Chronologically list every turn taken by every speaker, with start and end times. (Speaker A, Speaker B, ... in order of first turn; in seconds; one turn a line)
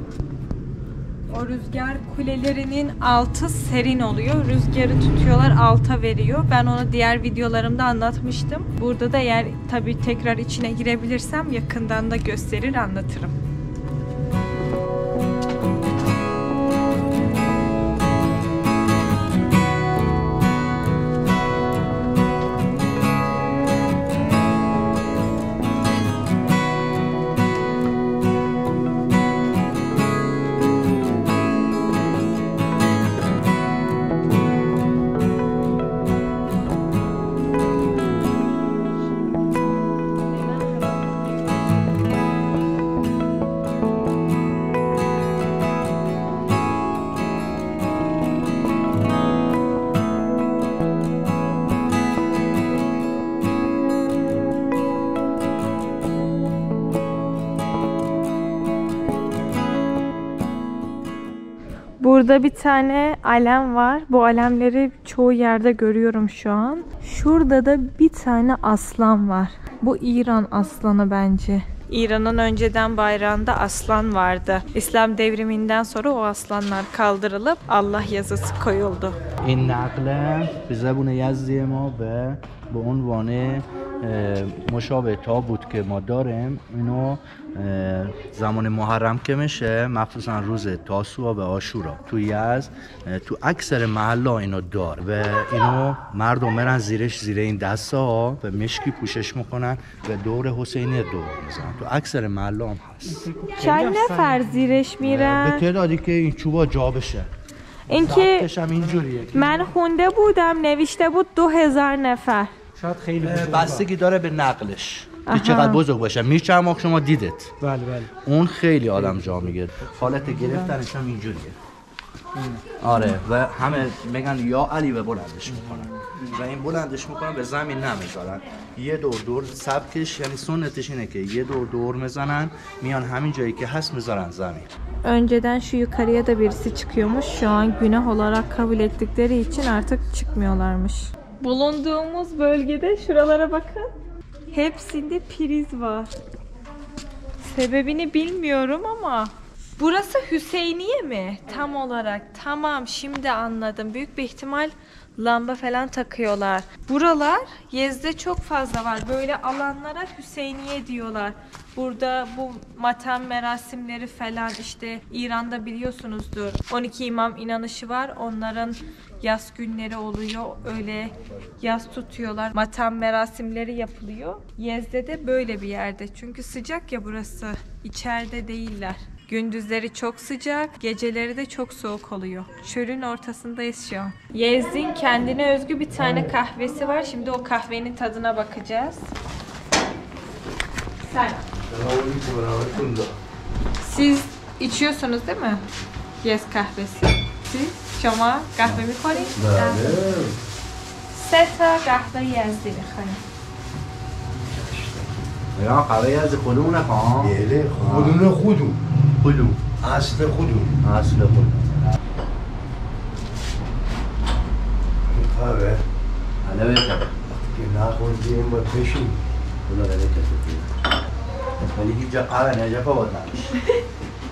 Speaker A: 1.3-13.3
Speaker A: 62.0-79.2
Speaker B: 79.4-103.2
Speaker C: 103.1-104.5
Speaker A: 103.6-105.6
Speaker B: 105.0-107.3
Speaker A: 107.9-108.5
Speaker B: 108.0-109.7
Speaker A: 109.3-112.5
Speaker C: 112.8-113.9
Speaker B: 113.2-117.5
Speaker A: 115.3-115.8
Speaker C: 117.6-118.1
Speaker B: 118.2-121.5
Speaker C: 120.3-120.7
Speaker C: 122.4-122.6
Speaker B: 122.8-134.7
Speaker C: 125.6-125.8
Speaker A: 135.0-143.9
Speaker A: 144.5-146.1
Speaker A: 147.4-189.1
Speaker A: 191.0-191.4
Speaker D: 191.7-193.1
Speaker A: 193.8-195.6
Speaker A: 196.2-199.9
Speaker D: 199.3-200.3
Speaker B: 199.9-200.2
Speaker A: 201.1-203.2
Speaker D: 204.5-205.0
Speaker B: 205.5-208.2
Speaker D: 207.2-208.8
Speaker B: 209.2-209.6
Speaker D: 209.8-210.8
Speaker B: 210.8-211.9
Speaker D: 215.1-215.8
Speaker B: 216.4-217.1
Speaker D: 217.3-219.2
Speaker B: 219.7-220.7
Speaker B: 221.7-223.6